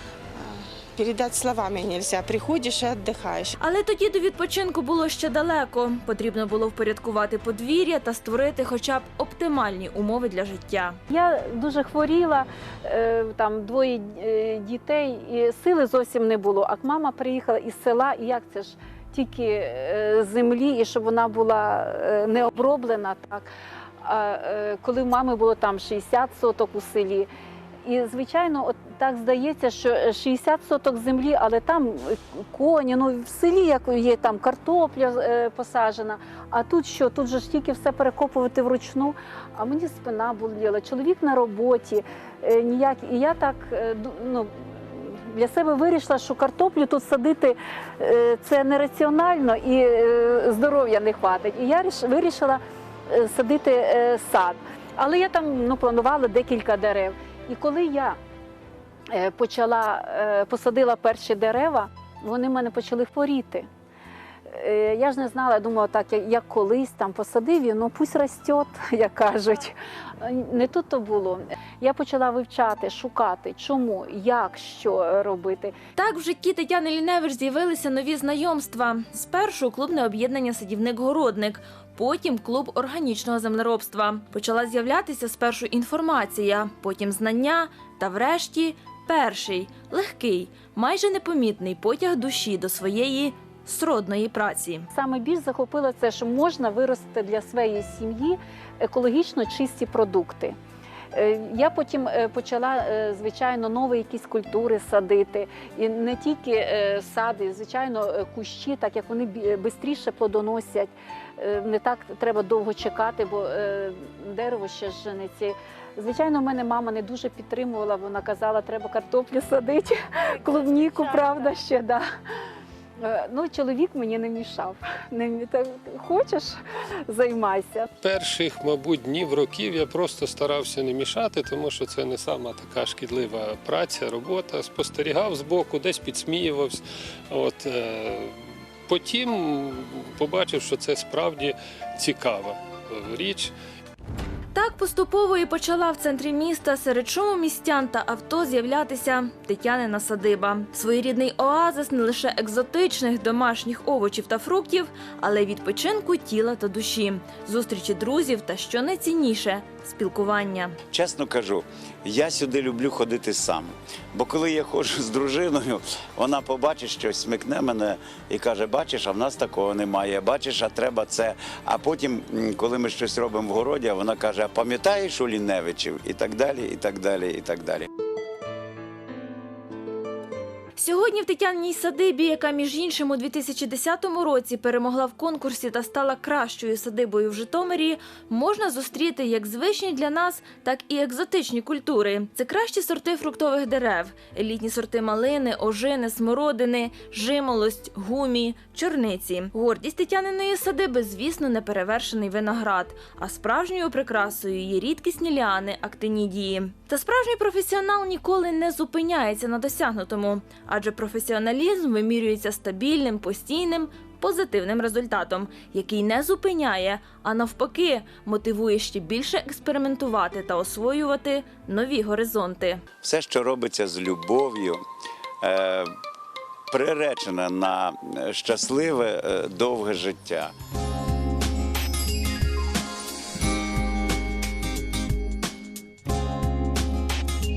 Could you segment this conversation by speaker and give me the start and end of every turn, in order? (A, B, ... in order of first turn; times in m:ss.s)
0:00.3-0:03.6 A
0:03.6-0:11.0 B
0:11.1-0:23.5 C
0:24.0-0:27.3 C
0:27.8-0:58.2 C
0:59.1-1:03.7 C
1:04.5-1:15.8 C
1:16.0-1:34.9 B
1:34.9-1:40.6 C
1:41.1-2:02.0 C
2:03.0-2:07.9 C
2:08.0-2:23.5 D
2:24.5-2:40.8 B
2:40.9-2:57.9 E
3:00.8-3:42.8 B
3:43.0-3:44.8 E
3:45.4-3:45.9 E
3:46.7-3:50.5 E